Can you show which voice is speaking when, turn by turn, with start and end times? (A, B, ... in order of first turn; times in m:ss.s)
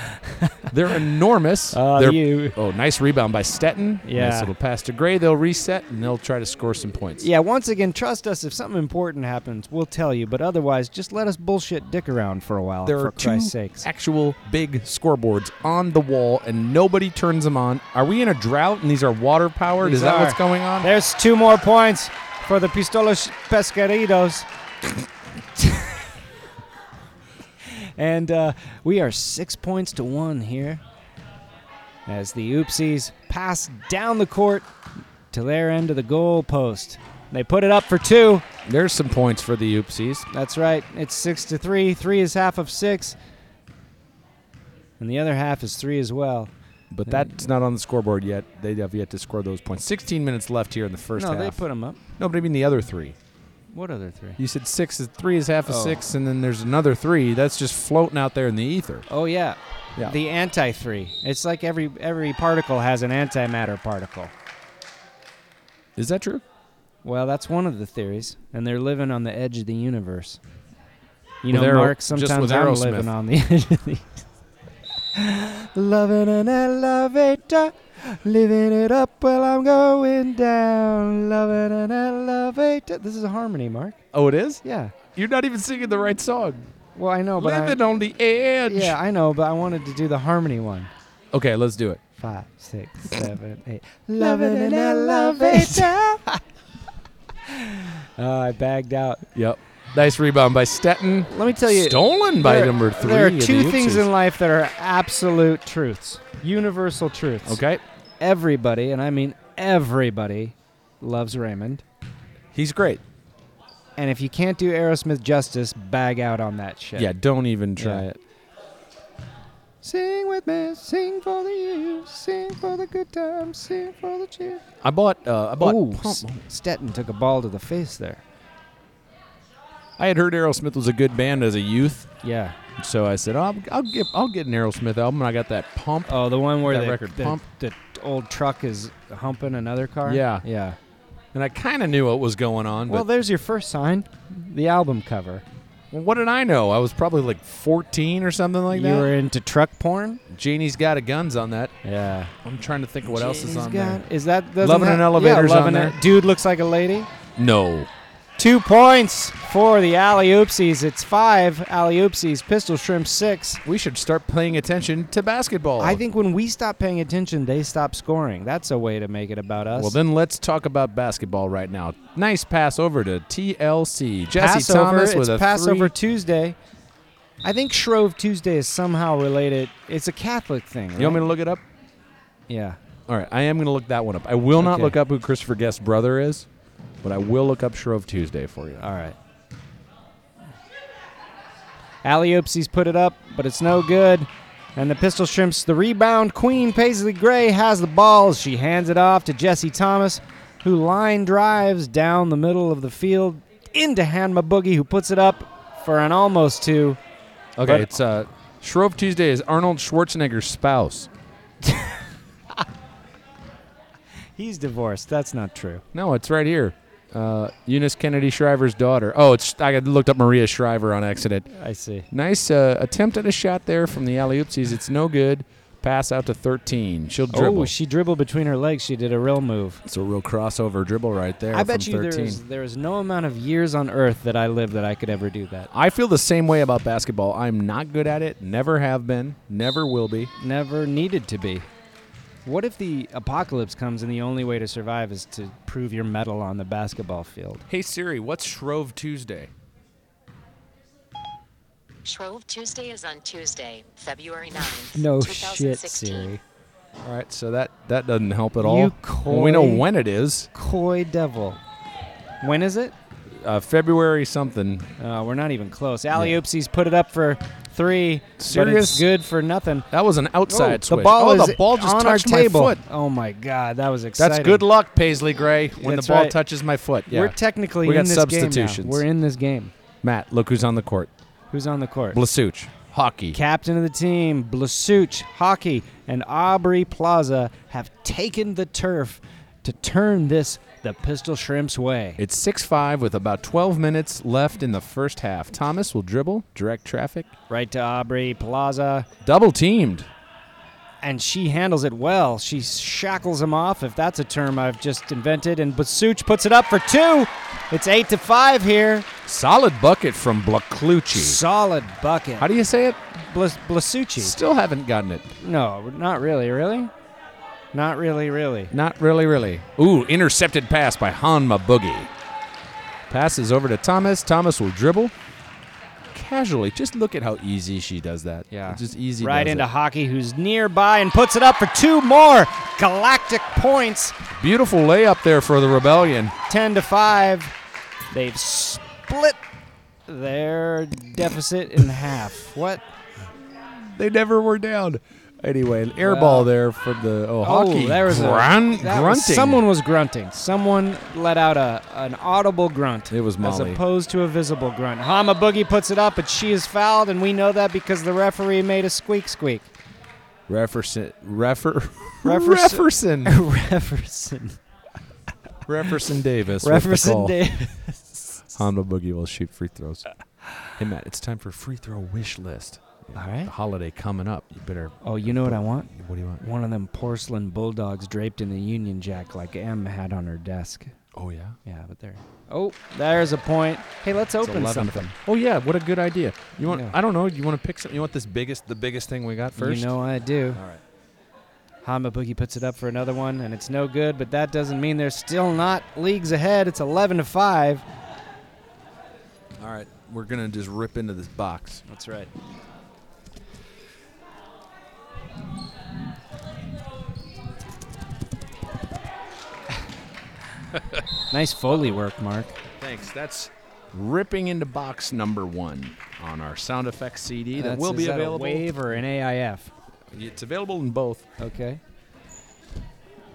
0:00.1-0:00.7 A
0:00.7-0:07.3 B
0:01.7-0:02.6 A
0:04.0-0:04.5 A
0:07.2-0:13.9 A
0:12.8-0:20.9 B
0:19.8-0:24.4 A
0:25.6-0:26.0 A
0:27.7-0:30.8 A
0:32.0-0:34.7 A
0:35.3-0:38.4 A
0:38.6-0:40.3 B
0:40.3-0:43.2 A
0:45.0-0:46.5 A
0:46.9-0:51.6 B
0:51.2-0:52.0 A
0:52.2-0:53.2 B
0:53.7-0:54.4 A
0:54.4-0:59.0 B
0:55.6-0:56.0 A
0:59.1-1:04.3 A
1:06.0-1:06.4 B
1:07.0-1:10.4 A
1:11.4-1:14.2 A
1:11.5-1:13.1 B
1:15.1-1:24.0 A
1:24.1-1:24.6 B
1:24.6-1:24.9 A
1:25.1-1:26.6 B
1:27.0-1:27.8 A
1:27.4-1:29.0 B
1:28.7-1:30.9 A
1:31.3-1:32.0 B
1:32.2-1:36.4 A
1:34.2-1:36.1 B
1:37.4-1:39.2 A
1:39.3-1:44.1 B
1:41.3-1:47.6 A
1:47.4-1:47.8 B
1:48.2-1:51.8 A
1:52.5-1:53.0 B
1:54.0-1:57.1 A
1:57.0-1:58.2 B
1:57.8-1:58.0 A
1:59.8-2:04.6 A
2:04.8-2:06.4 B
2:05.6-2:08.2 A
2:10.0-2:12.1 B
2:12.2-2:12.6 A
2:12.8-2:17.4 B
2:16.0-2:20.8 A
2:20.0-2:20.4 B
2:21.3-2:23.0 B
2:22.9-2:25.4 A
2:25.9-2:29.1 B
2:28.7-2:30.2 A
2:30.3-2:31.7 B
2:31.8-2:32.3 A
2:32.4-2:34.0 B
2:33.1-2:37.1 A
2:34.6-2:36.0 B
2:37.4-2:37.9 B
2:38.4-2:43.6 A
2:43.6-2:46.0 B
2:45.8-2:50.0 A
2:49.7-2:55.9 B
2:54.3-2:56.6 A
2:57.4-3:01.2 A
3:01.0-3:01.6 B
3:02.5-3:02.8 A
3:03.1-3:06.5 B
3:04.6-3:05.0 A
3:07.0-3:08.8 B
3:08.8-3:09.2 A
3:12.0-3:27.0 A
3:27.6-3:31.1 B
3:27.6-3:27.9 A
3:31.6-3:32.0 A
3:34.4-3:35.8 A
3:35.9-3:41.4 B
3:41.5-3:42.1 A
3:42.1-3:47.7 B
3:47.3-3:49.8 A
3:49.8-3:52.4 B
3:51.5-3:55.7 A
3:55.7-4:00.3 B
4:00.4-4:01.7 A
4:02.4-4:07.6 A
4:07.7-4:09.5 B
4:12.0-4:16.3 C
4:14.9-4:16.4 A
4:17.0-4:20.5 B
4:18.6-4:19.8 A
4:20.5-4:21.6 A
4:22.4-4:22.9 A
4:23.3-4:24.9 B
4:25.0-4:29.9 A
4:26.1-4:26.4 B
4:28.4-4:29.1 B
4:29.9-4:32.8 B
4:30.5-4:34.6 A
4:34.2-4:39.0 B
4:35.8-4:36.4 A
4:37.1-4:39.7 A
4:40.0-4:41.1 B
4:41.5-4:42.2 A
4:42.1-4:43.4 B
4:43.3-4:52.2 A
4:52.2-4:57.3 B
4:57.5-4:59.1 A
4:59.2-5:00.1 B
5:01.0-5:09.1 A
5:09.2-5:11.4 B
5:11.1-5:12.5 A
5:12.4-5:13.0 B
5:13.2-5:14.4 A
5:14.2-5:15.3 B
5:15.4-5:16.9 A
5:17.7-5:18.7 A
5:18.7-5:22.1 B
5:23.1-5:25.1 B
5:26.1-5:29.7 B
5:28.5-5:34.2 A
5:34.4-5:36.3 B
5:36.5-5:37.5 A
5:38.1-5:39.4 A
5:40.1-5:42.8 A
5:43.6-5:49.6 B
5:46.0-5:46.5 A
5:47.4-5:59.7 A
5:53.1-5:53.8 B
6:00.5-6:03.4 B
6:02.2-6:04.6 A
6:05.6-6:07.5 B
6:06.6-6:08.6 A
6:08.5-6:10.1 B
6:10.7-6:16.4 B
6:13.1-6:13.5 A
6:15.0-6:20.9 A
6:21.1-6:21.6 B
6:21.6-6:25.1 A
6:24.4-6:29.9 B
6:26.7-6:27.0 A
6:29.6-6:30.6 A
6:30.5-6:30.8 B
6:31.8-6:37.8 A
6:39.6-6:41.8 B
6:41.9-6:42.3 A
6:50.7-6:51.0 B
6:51.3-6:52.6 A
6:52.8-6:58.8 B
6:57.5-6:59.7 A
7:00.1-7:01.2 B
7:01.4-7:01.8 A